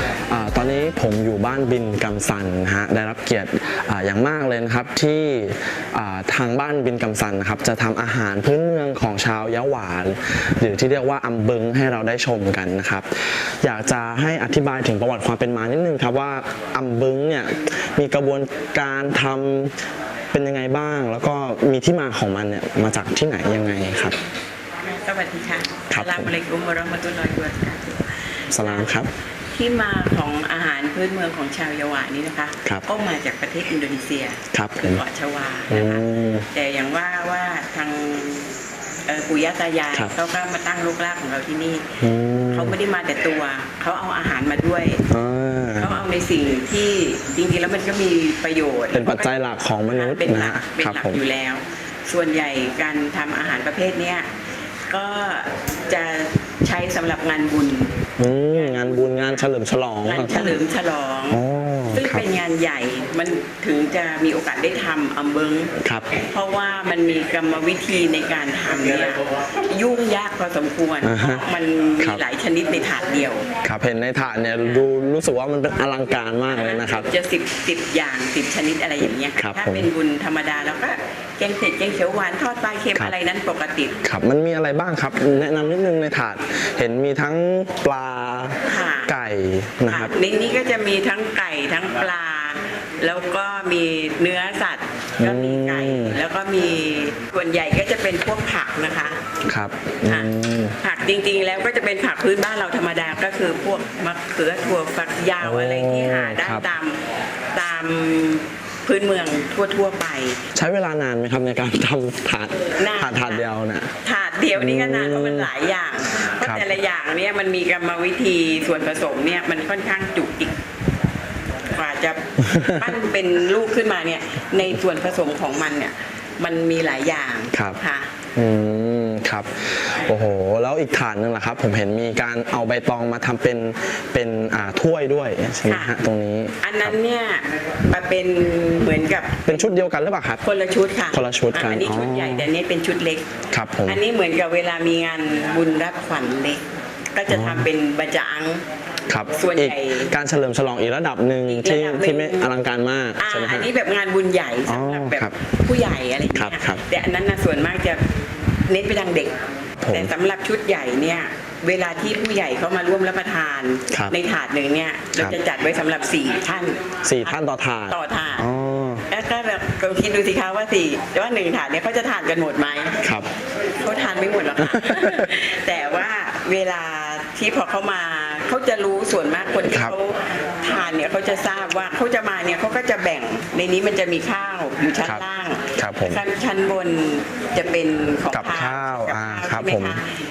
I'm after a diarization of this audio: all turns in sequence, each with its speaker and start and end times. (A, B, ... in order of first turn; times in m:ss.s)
0:00.3-0:13.0 A
0:13.6-0:19.7 A
0:20.3-0:24.2 A
0:24.8-0:28.9 B
0:25.9-0:26.3 A
0:28.5-0:29.1 A
0:29.5-0:38.5 B
0:34.5-0:35.0 A
0:35.7-0:36.4 A
0:39.1-0:41.9 B
0:42.0-0:42.8 A
0:42.5-0:45.0 B
0:45.1-0:45.9 A
0:45.8-0:49.3 B
0:48.9-0:51.2 A
0:49.8-0:54.3 B
0:54.9-0:57.9 B
0:58.2-1:00.6 A
0:58.5-0:59.1 B
1:00.0-1:01.4 B
1:01.3-1:02.2 A
1:01.9-1:05.7 B
1:05.8-1:06.1 A
1:06.3-1:13.5 B
1:11.0-1:11.4 A
1:13.6-1:17.1 A
1:16.5-1:23.9 B
1:19.4-1:19.9 A
1:24.0-1:28.6 A
1:28.7-1:29.1 B
1:29.1-1:30.1 A
1:29.9-1:39.2 B
1:35.2-1:36.2 A
1:39.5-1:40.7 A
1:40.8-1:47.0 B
1:45.4-1:46.6 A
1:47.5-1:50.4 B
1:50.5-1:53.9 A
1:52.8-1:53.4 B
1:54.0-2:00.5 B
1:54.5-1:55.5 A
2:01.7-2:08.1 B
2:07.5-2:07.8 A
2:08.3-2:16.9 A
2:15.6-2:15.9 B
2:16.6-2:19.7 B
2:19.4-2:20.4 A
2:20.4-2:23.3 B
2:21.1-2:22.5 A
2:23.5-2:24.0 A
2:23.8-2:26.6 B
2:27.1-2:28.6 B
2:27.3-2:27.6 A
2:29.1-2:33.7 A
2:29.4-2:30.1 B
2:31.5-2:32.5 B
2:33.2-2:38.0 B
2:34.6-2:35.4 A
2:36.3-2:36.8 A
2:38.7-2:48.4 B
2:39.8-2:40.1 A
2:47.0-2:49.0 A
2:49.1-2:53.0 B
2:53.0-2:53.3 A
2:53.8-3:10.0 B
2:54.6-2:55.3 A
2:59.7-2:59.9 A
3:05.8-3:06.2 A
3:08.3-3:10.0 A